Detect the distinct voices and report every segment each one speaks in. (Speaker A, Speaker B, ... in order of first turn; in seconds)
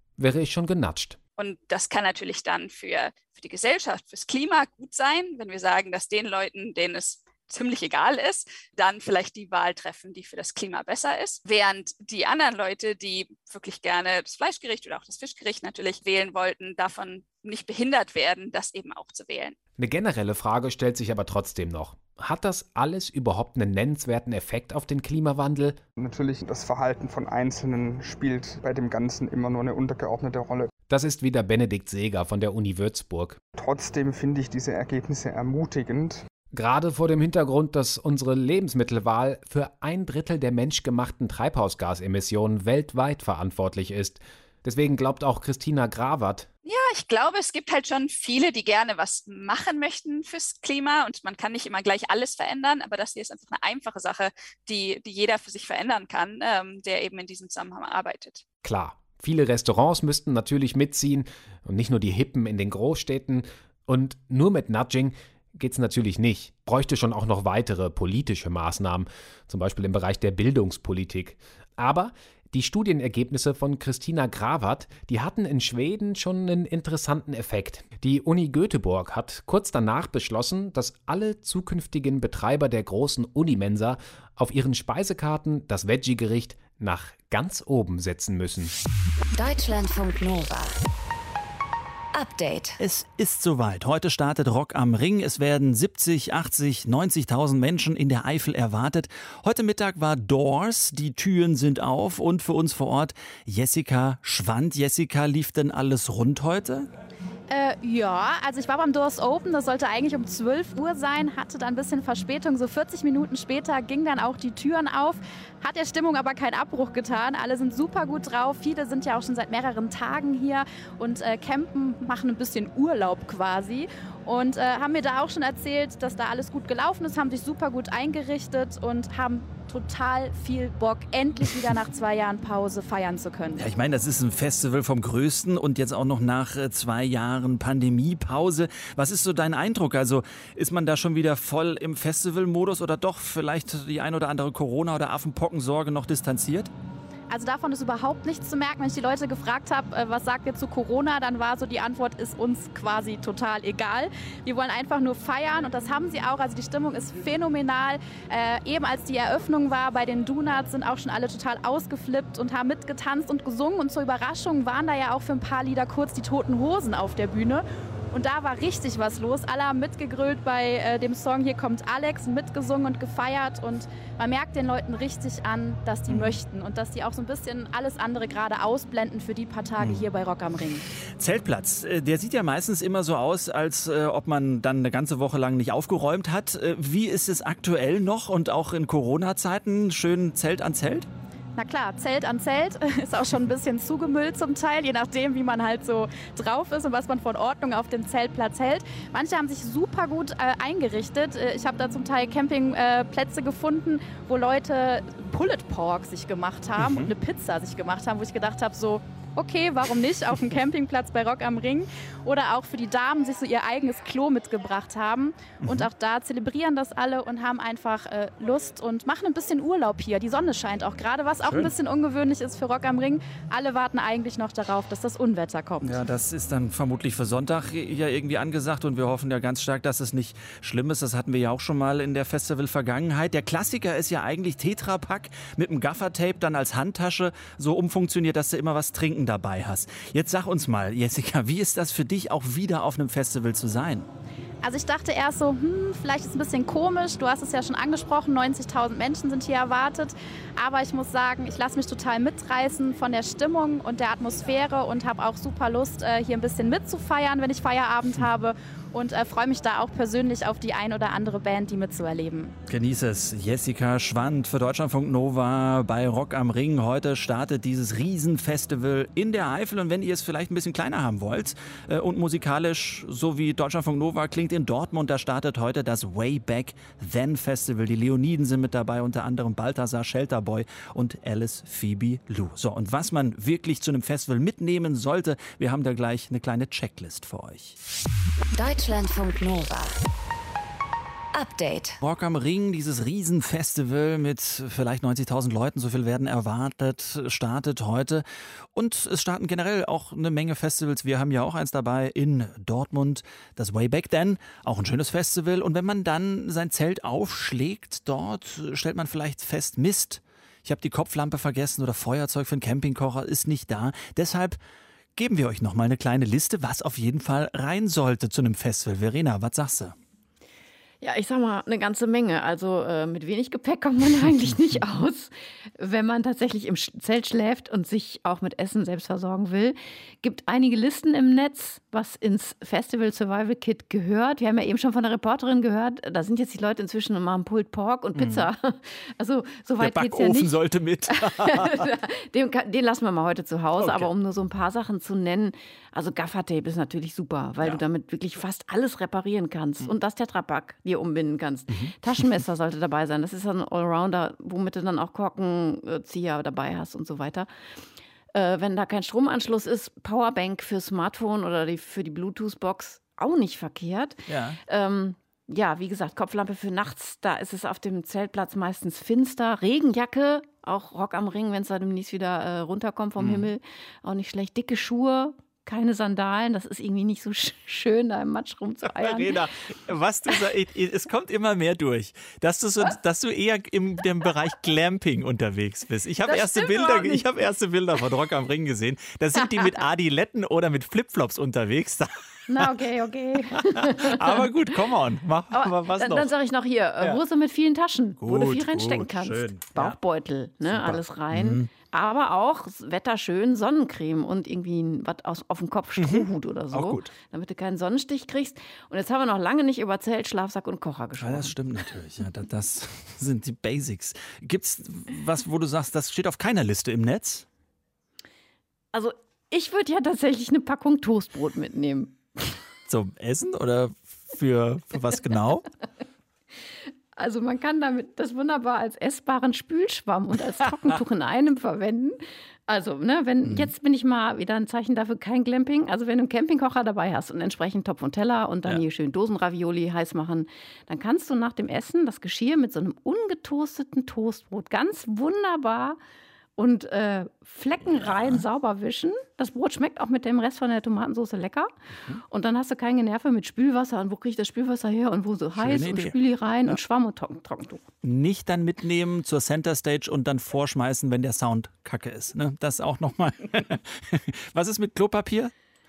Speaker A: 0.2-1.2, 19.8-25.8, 30.9-33.4, 36.5-46.5, 58.6-88.7
Speaker B: 1.4-19.6, 46.6-58.4
Speaker C: 26.0-30.7, 33.5-36.2
Speaker D: 89.3-90.8, 92.1-92.8, 288.5-290.0, 291.3-292.0
Speaker E: 92.8-106.9, 133.6-146.7, 176.1-176.4, 181.2-191.1, 206.8-207.1, 215.6-215.9, 221.4-221.7, 225.8-244.1, 262.7-287.8, 292.0-314.6, 315.1-319.9, 338.1-338.5, 339.8-341.9, 343.8-344.1, 364.3-364.6, 373.2-373.5, 378.8-392.8, 393.5-396.3, 398.2-400.0, 400.6-401.7, 406.0-407.1, 411.2-417.4, 422.9-425.6, 433.4-433.7, 447.9-448.4, 455.5-456.1, 458.0-465.5
Speaker F: 107.5-133.7, 147.3-180.8, 191.6-226.0, 244.6-262.5
Speaker G: 321.0-357.5, 358.3-379.4, 386.3-387.2, 389.3-389.6, 392.5-394.4, 395.5-411.5, 418.9-422.6, 427.1-446.0, 446.6-451.7, 452.3-457.8